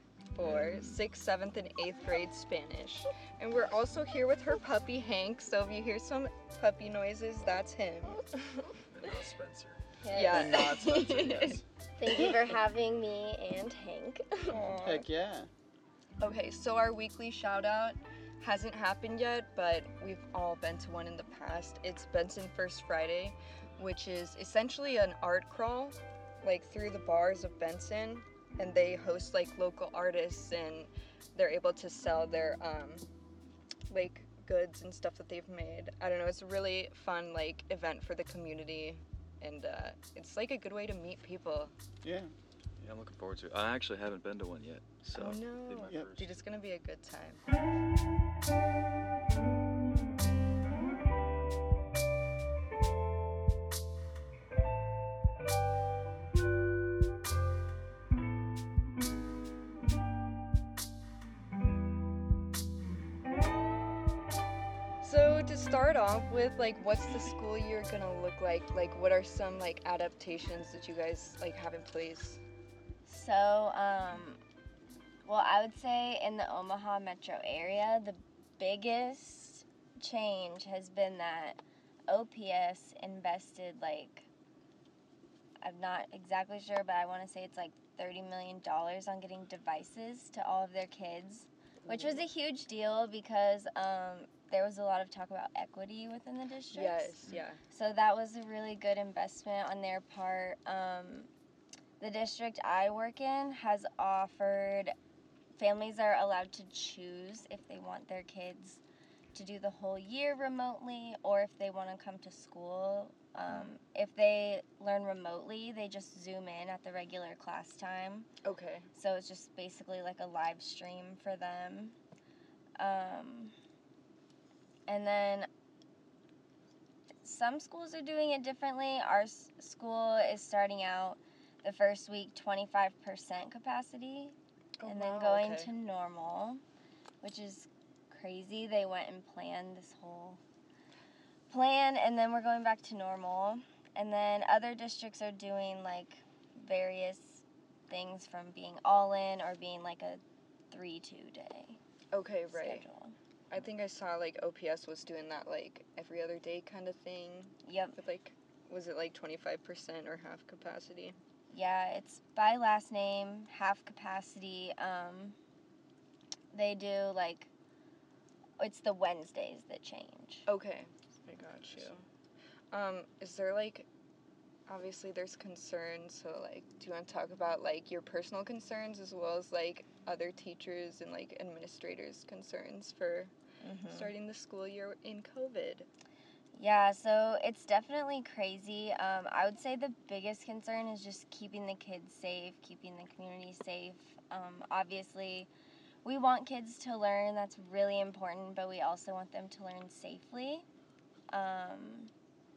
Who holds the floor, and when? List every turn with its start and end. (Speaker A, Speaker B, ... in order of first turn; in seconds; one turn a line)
Speaker A: 0.3-8.7
Speaker B: 0.4-1.0
Speaker B: 8.7-9.9
Speaker C: 10.0-14.7
Speaker A: 10.1-11.6
Speaker D: 10.3-11.6
Speaker A: 14.5-15.1
Speaker D: 14.8-15.5
Speaker A: 16.2-33.0
Speaker A: 33.9-41.7
Speaker D: 42.0-42.3
Speaker B: 42.8-46.4
Speaker A: 45.1-47.4
Speaker A: 65.0-72.4
Speaker C: 73.0-74.4
Speaker C: 75.2-84.3
Speaker C: 85.6-97.1
Speaker A: 91.8-92.2
Speaker A: 96.7-97.6
Speaker C: 97.7-101.3
Speaker C: 102.0-104.9
Speaker C: 105.6-108.8
Speaker C: 109.3-118.3
Speaker B: 113.5-113.7
Speaker A: 118.4-118.9
Speaker C: 118.9-122.0
Speaker C: 122.8-123.5
Speaker C: 124.9-125.5
Speaker C: 127.2-136.6
Speaker A: 134.8-135.7
Speaker C: 137.2-140.4
Speaker C: 141.5-151.8
Speaker A: 152.1-152.8
Speaker C: 152.5-153.2
Speaker A: 153.5-161.1
Speaker C: 157.6-157.9
Speaker C: 161.5-165.3
Speaker C: 166.5-167.5
Speaker C: 168.6-170.5
Speaker A: 170.5-172.0
Speaker B: 171.2-172.0
Speaker A: 172.7-173.9
Speaker A: 174.7-183.3
Speaker C: 183.6-184.1
Speaker A: 183.9-185.9
Speaker C: 186.5-195.5
Speaker C: 196.0-200.6
Speaker C: 201.3-202.1